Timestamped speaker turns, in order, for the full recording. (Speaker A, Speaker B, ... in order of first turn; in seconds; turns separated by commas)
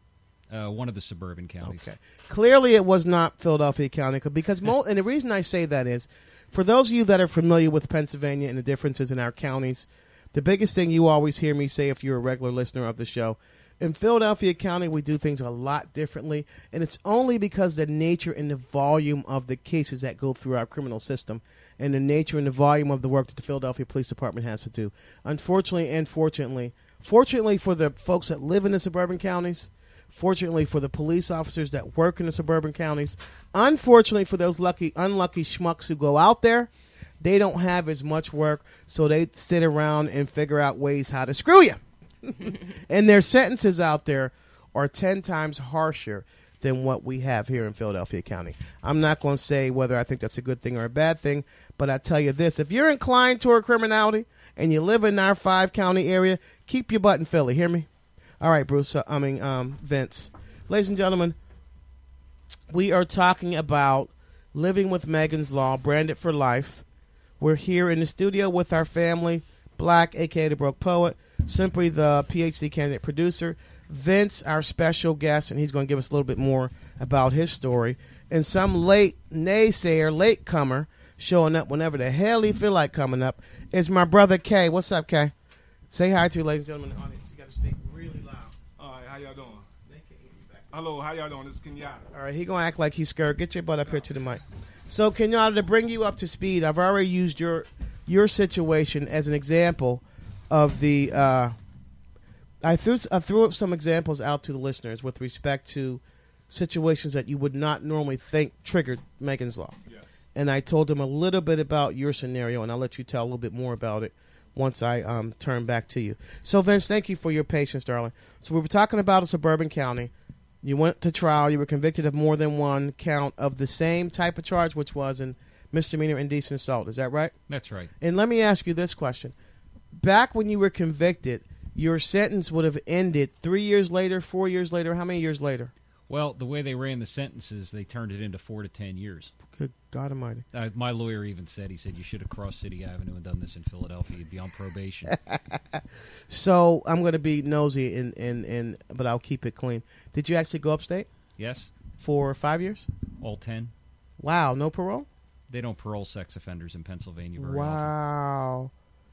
Speaker A: 0.5-1.9, Speaker B: 1.6-57.9, Speaker B: 58.4-61.4, Speaker B: 62.7-66.8, Speaker B: 67.4-85.3, Speaker B: 85.9-88.5, Speaker C: 88.8-89.7, Speaker B: 89.9-90.8, Speaker C: 90.7-92.1, Speaker B: 92.1-101.5, Speaker B: 102.6-109.8, Speaker B: 110.3-120.1, Speaker B: 120.6-127.3, Speaker A: 127.5-127.9, Speaker B: 128.0-129.3, Speaker B: 130.0-135.7, Speaker A: 136.1-139.3, Speaker B: 139.6-140.4, Speaker A: 140.5-145.2, Speaker B: 146.3-151.1, Speaker A: 151.4-151.7, Speaker B: 152.0-152.9, Speaker A: 153.2-153.7, Speaker B: 154.2-155.1, Speaker A: 155.5-157.9, Speaker B: 157.4-158.7